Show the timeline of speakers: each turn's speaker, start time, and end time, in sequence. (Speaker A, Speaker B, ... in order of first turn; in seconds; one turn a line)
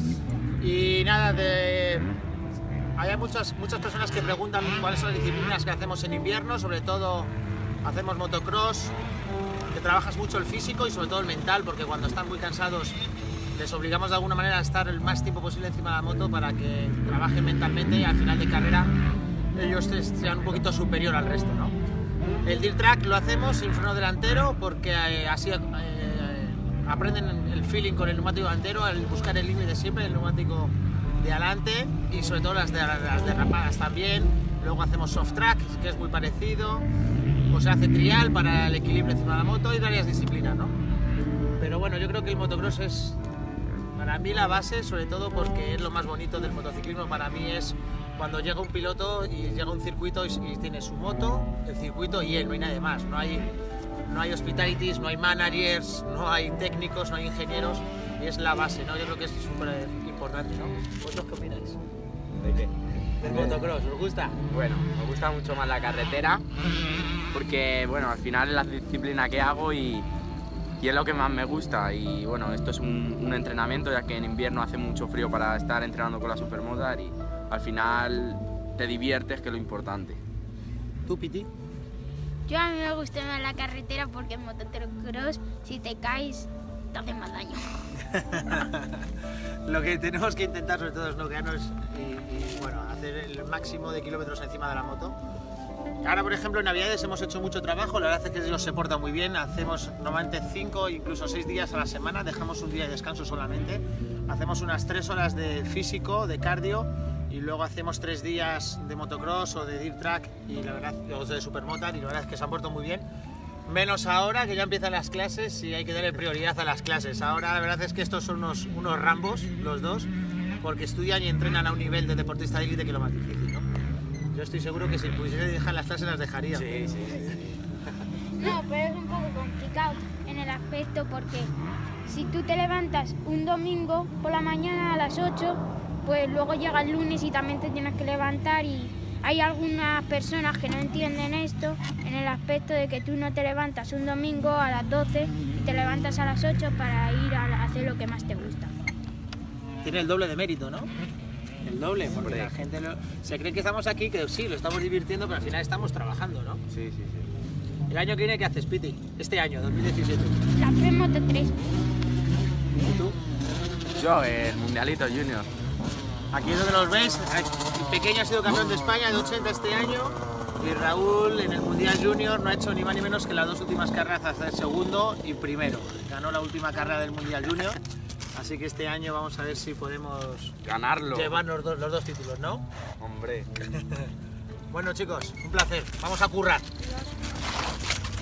Speaker A: 0.6-2.1
Speaker A: 3.0-7.3
Speaker A: 7.8-8.9
Speaker A: 9.7-13.0
Speaker A: 13.5-18.9
Speaker A: 19.5-21.7
Speaker A: 22.4-36.9
Speaker A: 37.5-40.7
Speaker A: 41.6-43.2
Speaker A: 43.9-53.5
Speaker A: 54.1-61.8
Speaker B: 62.4-62.7
Speaker A: 63.2-64.4
Speaker B: 63.2-63.6
Speaker B: 64.5-66.4
Speaker B: 67.3-70.1
Speaker B: 70.8-80.2
Speaker A: 81.1-81.5
Speaker C: 82.5-87.6
Speaker A: 88.0-89.1
Speaker A: 89.6-95.2
Speaker A: 96.0-113.0
Speaker A: 113.7-123.7
Speaker A: 124.3-126.8
Speaker B: 126.5-127.6
Speaker C: 128.4-131.5
Speaker C: 132.0-148.7
Speaker A: 149.8-150.9
Speaker A: 151.6-156.6
Speaker B: 152.2-152.5
Speaker B: 156.7-157.3
Speaker A: 157.9-160.4
Speaker C: 160.5-161.5
Speaker A: 162.7-163.2
Speaker B: 163.9-165.5
Speaker A: 166.3-177.8
Speaker A: 178.3-180.6
Speaker B: 180.6-181.4
Speaker A: 181.1-182.6
Speaker B: 183.0-183.5
Speaker A: 183.8-184.1
Speaker A: 184.7-186.7
Speaker C: 186.8-187.1